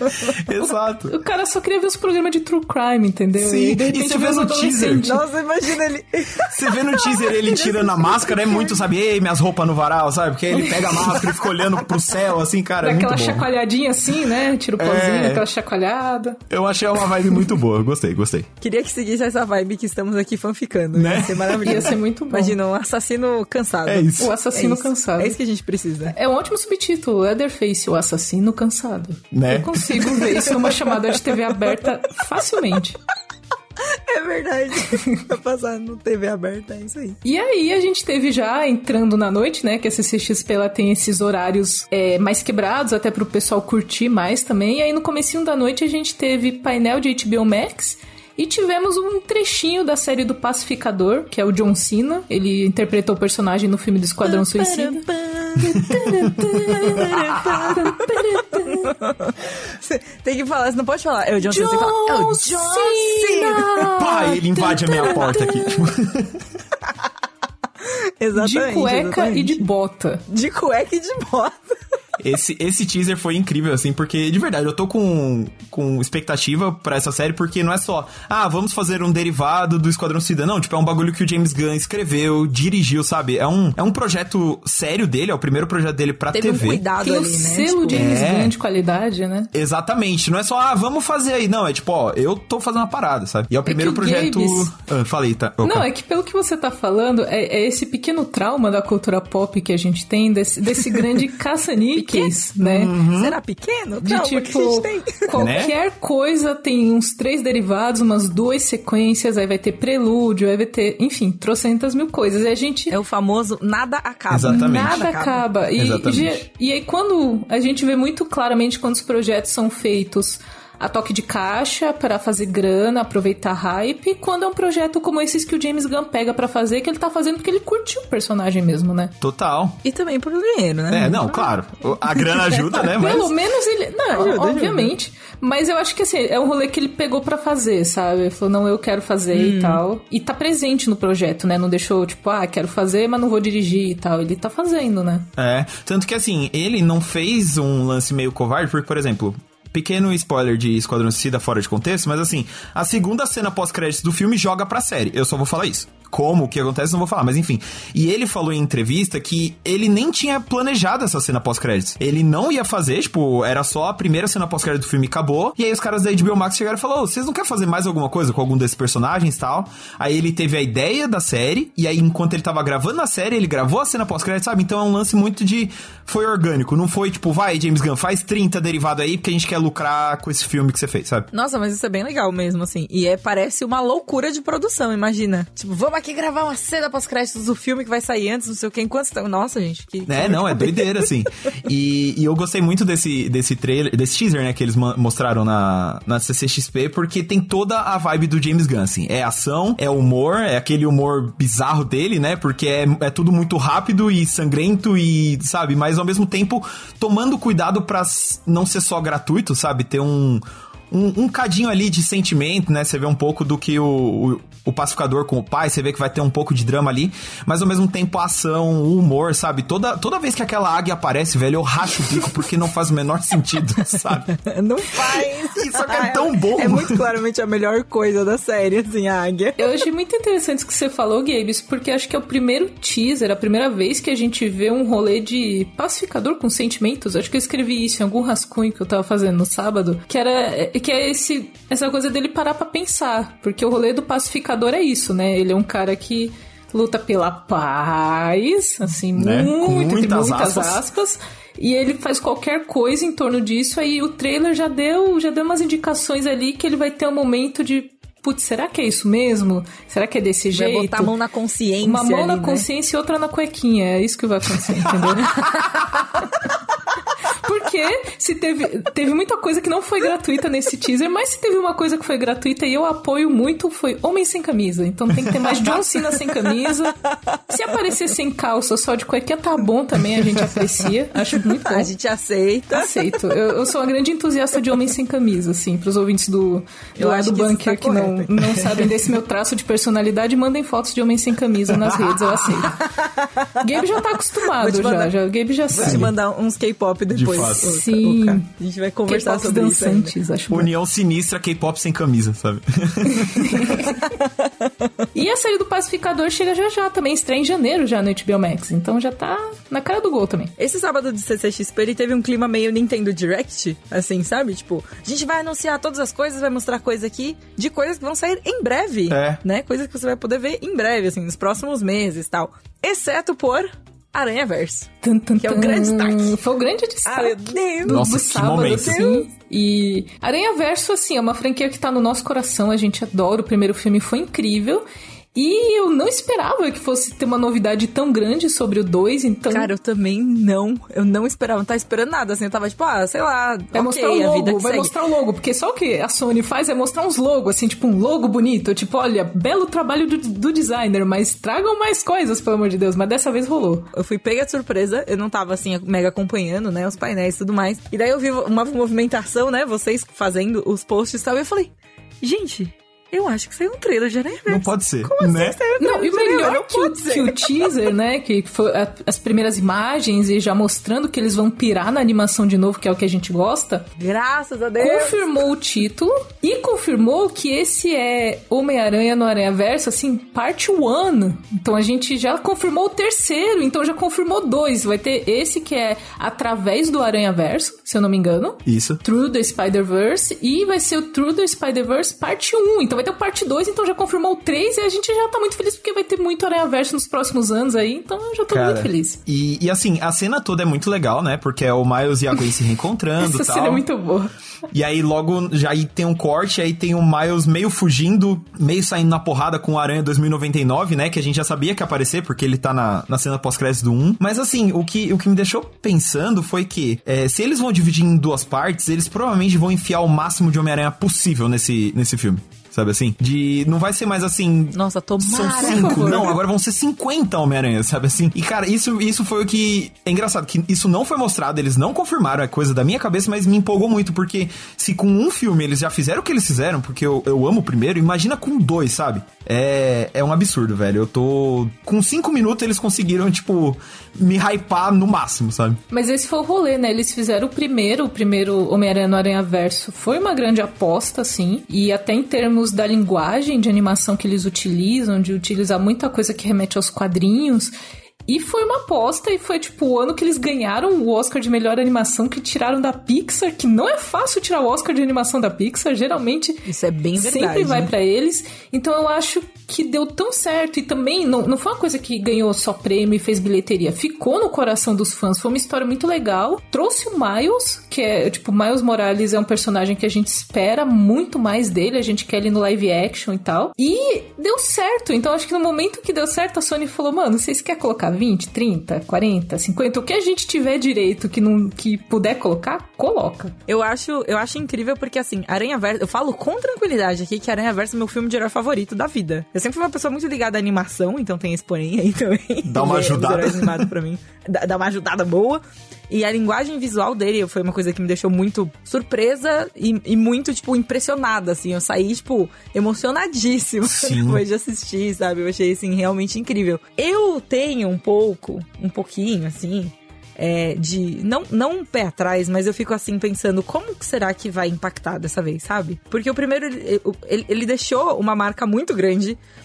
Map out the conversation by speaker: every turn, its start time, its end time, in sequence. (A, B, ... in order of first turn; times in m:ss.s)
0:00.2-0:01.2 A
0:00.5-0:05.2 B
0:03.4-0:05.2 A
0:05.0-0:08.8 C
0:06.5-0:13.5 A
0:10.6-0:11.3 B
0:12.8-0:16.4 B
0:14.8-0:15.5 A
0:16.5-0:18.5 A
0:18.6-0:26.2 C
0:20.9-0:21.9 A
0:21.6-0:22.6 B
0:23.9-0:24.3 A
0:24.2-0:25.4 B
0:26.1-0:33.0 B
0:29.3-0:30.3 A
0:30.4-0:31.0 C
0:33.9-0:37.2 C
0:37.2-0:55.1 B
0:54.2-0:55.9 C
0:55.6-0:59.0 B
0:55.9-0:56.4 A
0:56.5-1:03.9 C
0:57.2-0:57.6 A
1:01.4-1:05.9 B
1:03.9-1:06.4 A
1:07.8-1:09.7 C
1:08.4-1:10.2 B
1:10.3-1:11.8 C
1:12.2-1:26.8 A
1:26.3-1:28.2 C
1:27.0-1:29.5 B
1:27.9-1:28.5 A
1:29.5-1:35.9 A
1:33.7-1:34.7 B
1:35.6-1:42.9 B
1:42.0-1:42.3 C
1:42.6-1:43.4 A
1:43.0-1:45.3 C
1:44.0-1:52.9 B
1:45.3-1:45.7 A
1:52.9-1:55.5 C
1:54.3-1:55.0 A
1:54.4-2:09.2 B
1:55.8-1:56.4 A
2:09.2-2:09.8 A
2:09.8-2:11.4 C
2:10.9-2:13.3 A
2:12.7-2:25.3 B
2:14.1-2:14.9 C
2:19.3-2:19.8 C
2:25.4-3:01.3 A
3:01.3-3:11.1 C
3:10.1-3:44.4 A
3:44.4-3:49.8 C
3:45.1-3:47.0 A
3:49.6-4:21.1 B
4:09.2-4:10.8 A
4:20.5-4:22.7 C
4:21.8-4:25.5 B
4:25.4-4:25.8 C
4:27.4-4:41.9 B
4:41.4-4:43.4 C
4:42.7-4:52.9 B
4:47.0-4:48.9 C
4:52.7-4:53.9 C
4:53.6-4:56.1 B
4:54.6-4:55.1 C
4:55.7-5:00.1 C
4:55.8-4:56.1 A
4:57.1-4:57.7 A
4:57.3-4:58.4 B
4:59.1-5:00.7 B
5:00.5-5:03.9 A
5:03.3-5:03.9 B
5:04.0-5:04.7 C
5:05.1-5:10.5 B
5:10.6-5:26.4 C
5:19.1-5:19.4 A
5:25.0-5:39.7 B
5:27.0-5:29.2 C
5:27.9-5:29.0 A
5:39.5-5:44.9 C
5:43.7-5:53.9 B
5:53.9-6:01.7 C
6:02.2-6:07.7 C
6:04.5-6:05.6 A
6:05.8-6:13.9 B
6:14.0-6:15.3 C
6:14.8-6:39.2 B
6:28.7-6:29.0 A
6:38.5-6:43.8 A
6:43.2-6:44.3 B
6:44.7-7:25.8 A
7:04.7-7:06.3 C
7:05.3-7:06.4 B
7:25.9-7:37.7 B
7:38.3-8:13.6 B
7:46.7-7:47.9 C
8:13.7-8:49.4 C
8:22.6-8:23.9 A
8:33.8-8:34.4 A